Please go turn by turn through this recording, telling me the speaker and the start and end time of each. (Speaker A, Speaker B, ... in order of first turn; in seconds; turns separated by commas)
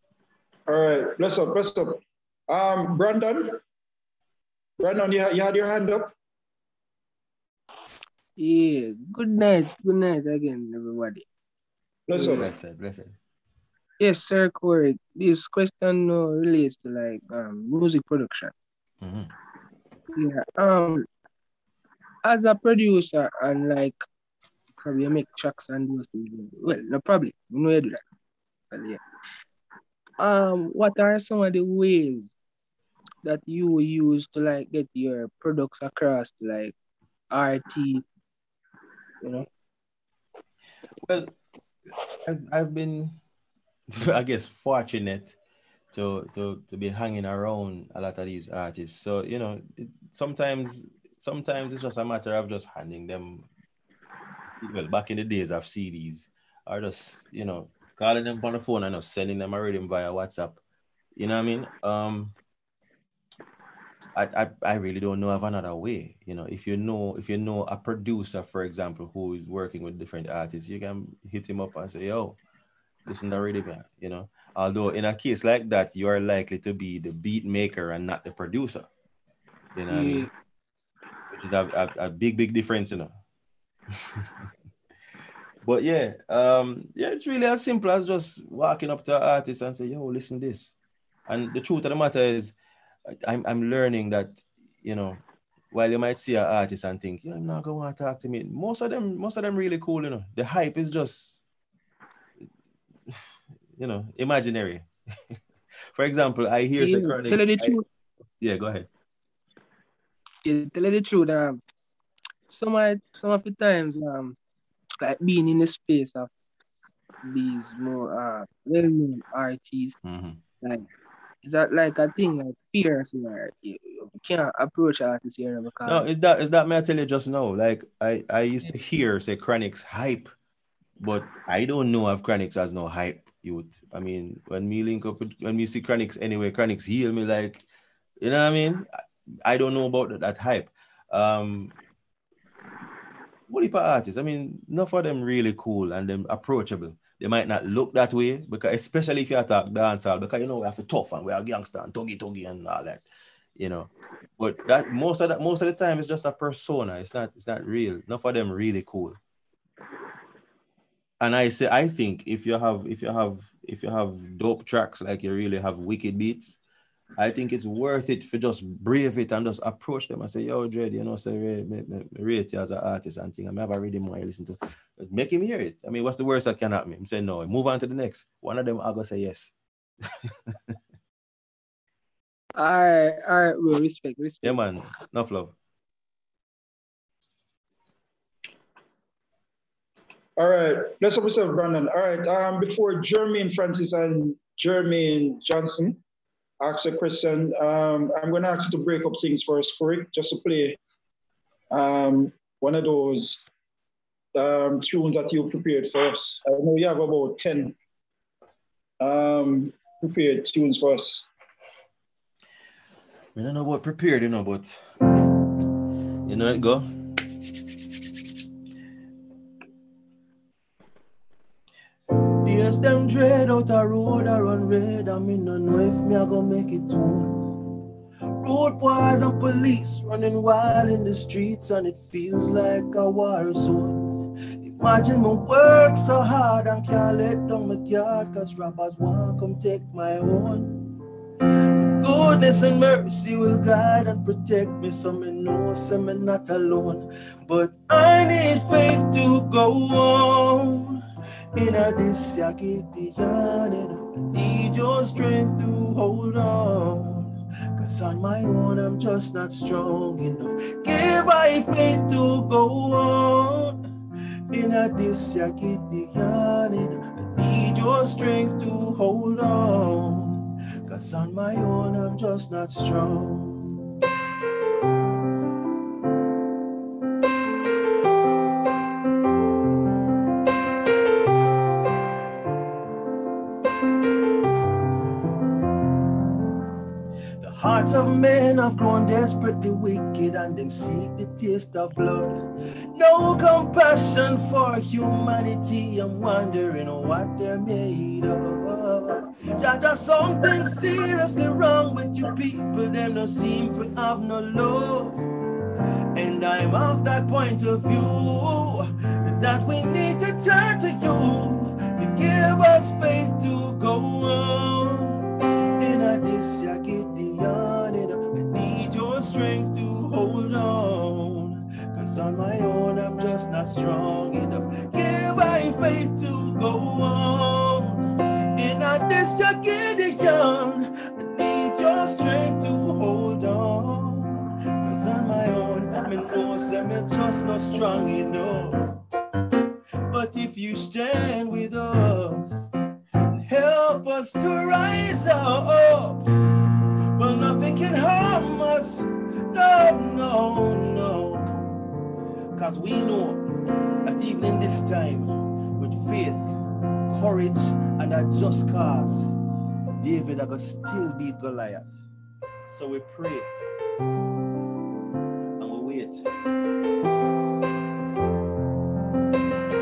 Speaker A: 0.7-3.6, Speaker A: 4.8-6.1, Speaker B: 8.4-11.2, Speaker A: 12.1-12.5, Speaker C: 12.1-13.2, Speaker B: 14.0-18.5, Speaker C: 19.0-19.3, Speaker B: 20.1-21.1, Speaker B: 22.2-24.0, Speaker B: 24.8-28.0, Speaker B: 28.7-29.0, Speaker B: 30.2-32.3, Speaker B: 33.2-36.7, Speaker B: 37.3-38.1, Speaker B: 39.2-39.5, Speaker C: 41.0-41.3, Speaker C: 42.2-43.2, Speaker C: 43.9-45.4, Speaker C: 45.9-53.5, Speaker C: 54.6-60.6, Speaker C: 61.1-62.3, Speaker C: 64.1-72.4, Speaker C: 73.0-78.9, Speaker C: 79.8-80.3, Speaker B: 79.9-80.3, Speaker C: 81.3-83.1, Speaker C: 83.9-84.2, Speaker C: 85.6-90.7, Speaker C: 91.3-92.5, Speaker C: 93.1-101.4, Speaker C: 103.8-104.9, Speaker C: 105.9-107.8, Speaker B: 106.8-107.8, Speaker C: 108.4-108.9, Speaker B: 110.4-111.6, Speaker B: 112.5-114.3, Speaker B: 115.0-116.3, Speaker B: 117.2-120.0, Speaker C: 120.0-120.4, Speaker B: 120.6-120.9, Speaker B: 121.4-126.0, Speaker C: 125.8-130.3, Speaker C: 131.0-137.6, Speaker C: 138.2-138.9, Speaker C: 139.4-141.7, Speaker C: 143.5-153.0, Speaker C: 153.6-159.2, Speaker C: 161.2-166.6, Speaker C: 167.2-179.5, Speaker C: 180.2-180.7, Speaker B: 182.6-184.6, Speaker C: 184.4-185.5, Speaker A: 190.4-196.0, Speaker A: 196.6-200.8, Speaker A: 201.7-203.4, Speaker A: 204.3-207.7, Speaker A: 209.0-211.2, Speaker C: 213.3-214.8, Speaker C: 216.2-217.2, Speaker C: 222.4-227.7, Speaker C: 228.4-240.9, Speaker C: 242.0-251.0, Speaker C: 251.5-263.8, Speaker C: 264.5-273.6, Speaker C: 287.4-305.2, Speaker C: 306.1-315.2, Speaker C: 315.8-339.0, Speaker C: 340.1-342.7, Speaker C: 343.3-346.2, Speaker C: 347.1-351.6, Speaker C: 352.5-353.4, Speaker C: 354.0-356.5, Speaker C: 357.1-359.2, Speaker C: 360.0-361.9, Speaker C: 362.6-363.5, Speaker C: 365.6-366.3